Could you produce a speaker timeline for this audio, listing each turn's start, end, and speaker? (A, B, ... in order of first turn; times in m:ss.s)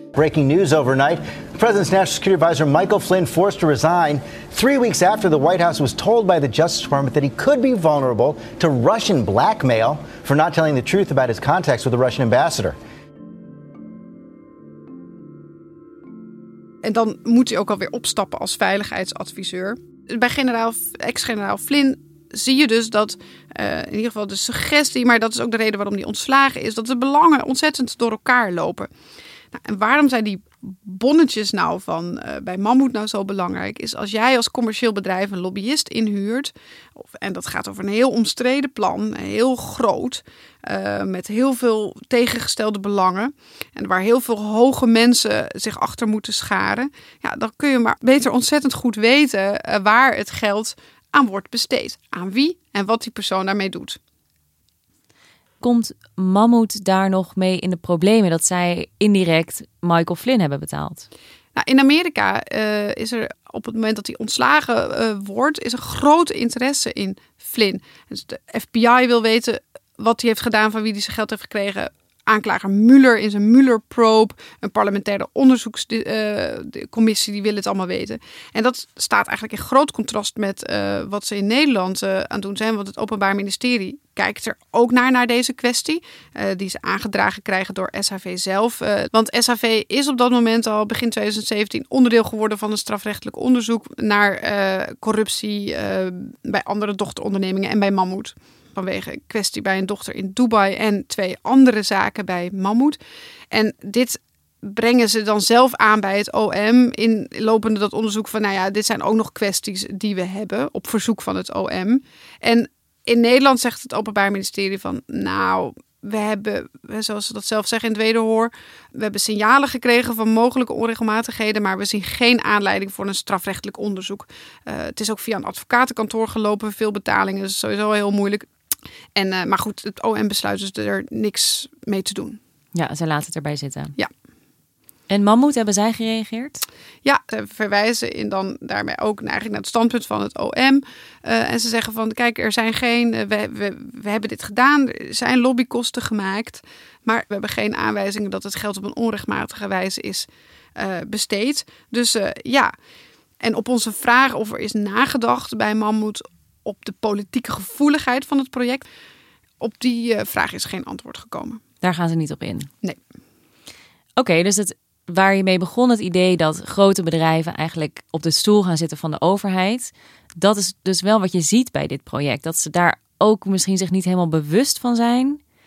0:00.1-0:12.8 A
0:16.8-0:28.9 B
0:29.5-0:54.0 B
0:55.6-1:01.1 C
1:01.5-1:43.0 B
1:43.5-2:08.5 B
2:09.2-2:12.4 B
2:12.7-2:13.9 C
2:15.1-2:16.6 C
2:17.0-2:32.7 B
2:33.4-2:38.8 B
2:39.6-2:41.6 B
2:41.8-2:42.7 C
2:44.2-2:55.4 C